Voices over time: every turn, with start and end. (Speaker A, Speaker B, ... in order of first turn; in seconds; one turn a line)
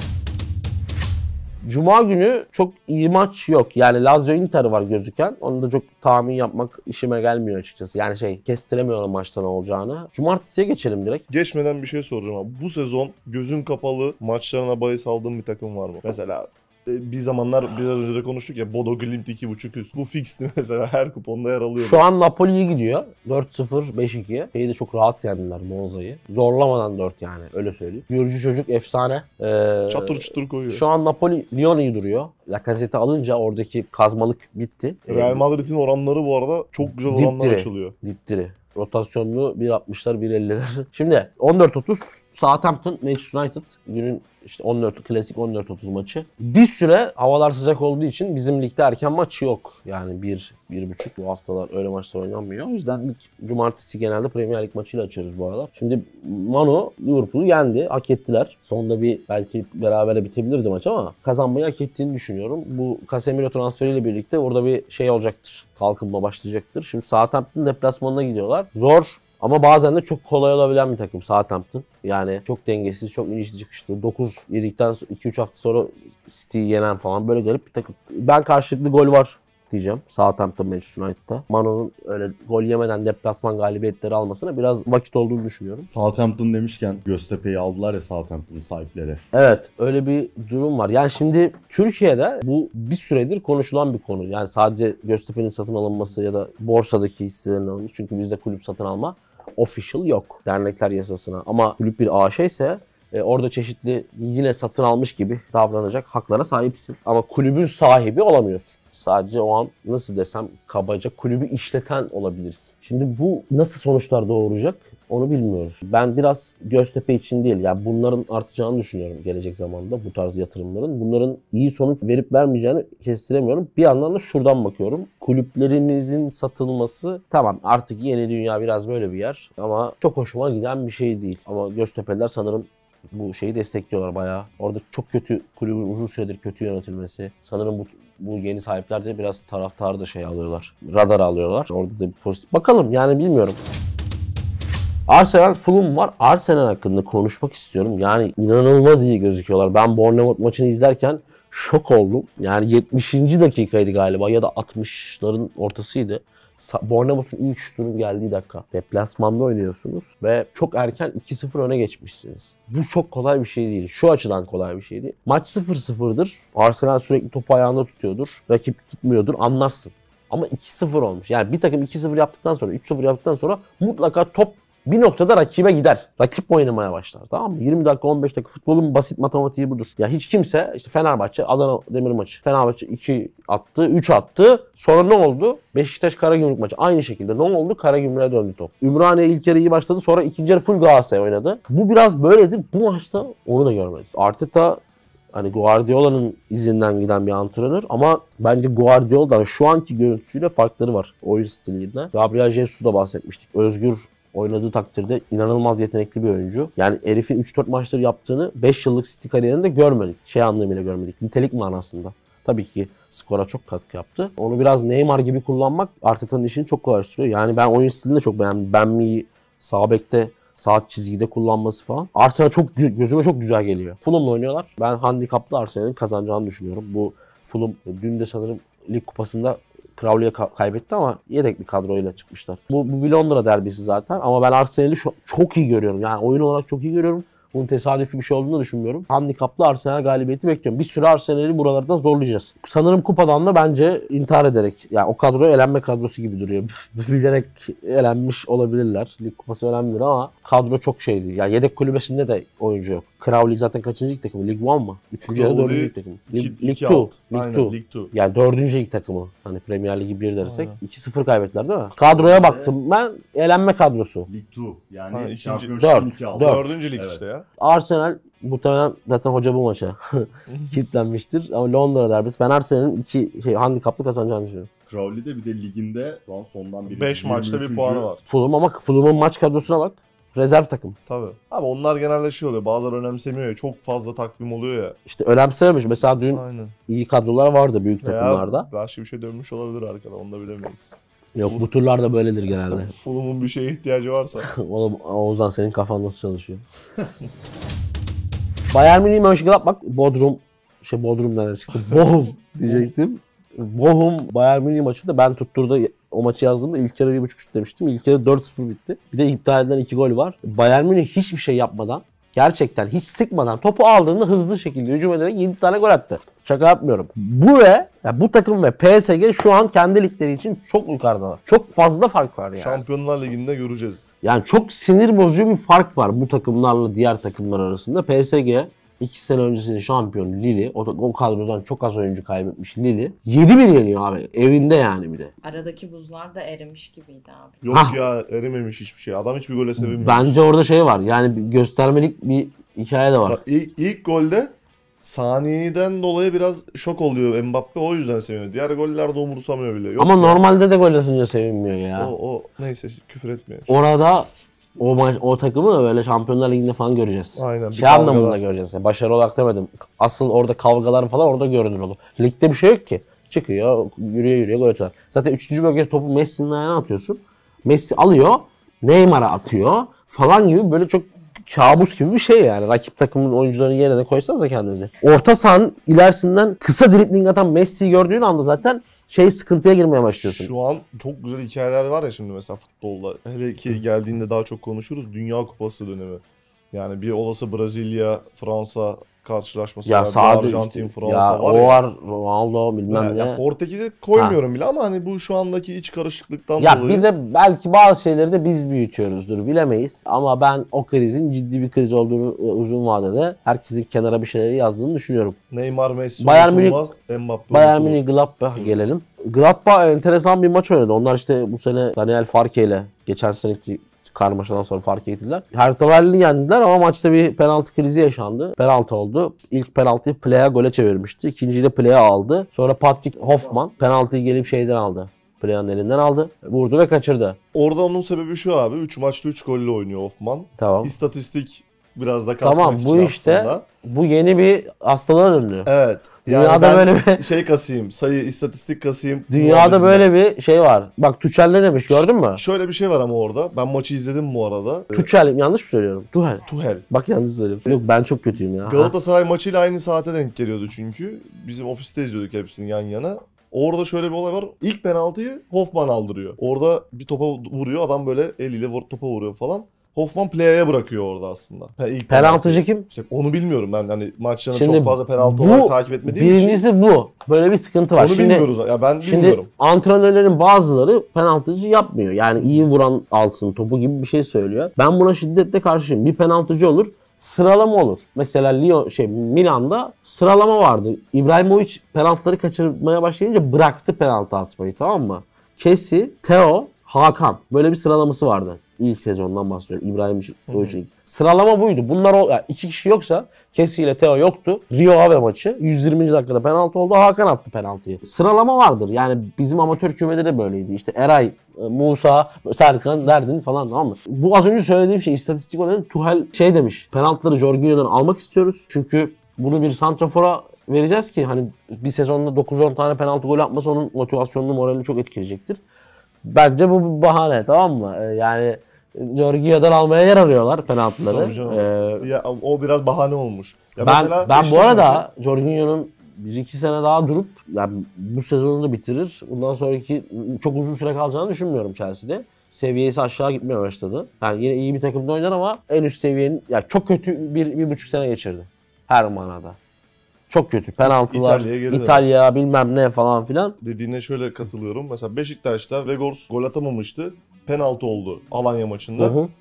Speaker A: 1.6-11.2
Speaker B: 11.3-22.0
Speaker A: 21.8-35.4
Speaker B: 29.9-30.8
Speaker B: 35.1-38.0
Speaker A: 37.1-85.9
Speaker C: 85.9-89.2
Speaker A: 89.3-143.8
Speaker A: 145.1-194.8
Speaker A: 195.3-264.3
Speaker B: 255.3-258.1
Speaker B: 260.4-260.8
Speaker C: 262.1-262.6
Speaker B: 262.1-262.7
Speaker C: 264.3-267.2
Speaker B: 265.1-265.8
Speaker A: 265.7-266.8
Speaker B: 266.4-267.4
Speaker A: 267.6-274.7
Speaker C: 274.9-278.1
Speaker B: 276.9-278.2
Speaker A: 278.3-280.9
Speaker B: 281.1-285.0
Speaker A: 285.1-288.7
Speaker B: 286.3-286.8
Speaker B: 288.0-291.6
Speaker A: 291.4-292.9
Speaker B: 292.9-294.5
Speaker A: 294.4-296.6
Speaker A: 298.7-322.8
Speaker B: 322.6-324.1
Speaker A: 324.2-335.3
Speaker D: 335.4-337.6
Speaker B: 337.6-340.4
Speaker A: 337.7-338.0
Speaker A: 339.8-343.4
Speaker B: 343.2-350.4
Speaker A: 350.0-352.1
Speaker B: 352.0-353.7
Speaker A: 353.7-380.5
Speaker B: 357.4-358.4
Speaker B: 380.1-391.8
Speaker A: 389.9-393.4
Speaker B: 392.9-397.1
Speaker A: 396.6-405.4
Speaker B: 405.5-408.0
Speaker A: 406.2-406.8
Speaker A: 407.5-427.4
Speaker B: 427.5-433.6
Speaker A: 430.6-430.9
Speaker A: 432.4-435.7
Speaker B: 435.6-440.1
Speaker A: 436.2-437.2
Speaker A: 439.3-442.4
Speaker B: 441.9-445.1
Speaker A: 444.9-448.9
Speaker B: 446.4-446.9
Speaker B: 448.6-466.6
Speaker A: 462.1-462.9
Speaker A: 464.5-468.5
Speaker B: 467.9-469.5
Speaker A: 469.0-515.6
Speaker B: 490.5-490.8
Speaker A: 516.2-522.1
Speaker B: 521.1-525.1
Speaker A: 523.8-539.6
Speaker A: 540.3-543.6
Speaker B: 540.8-542.1
Speaker B: 543.6-549.2
Speaker A: 549.0-549.3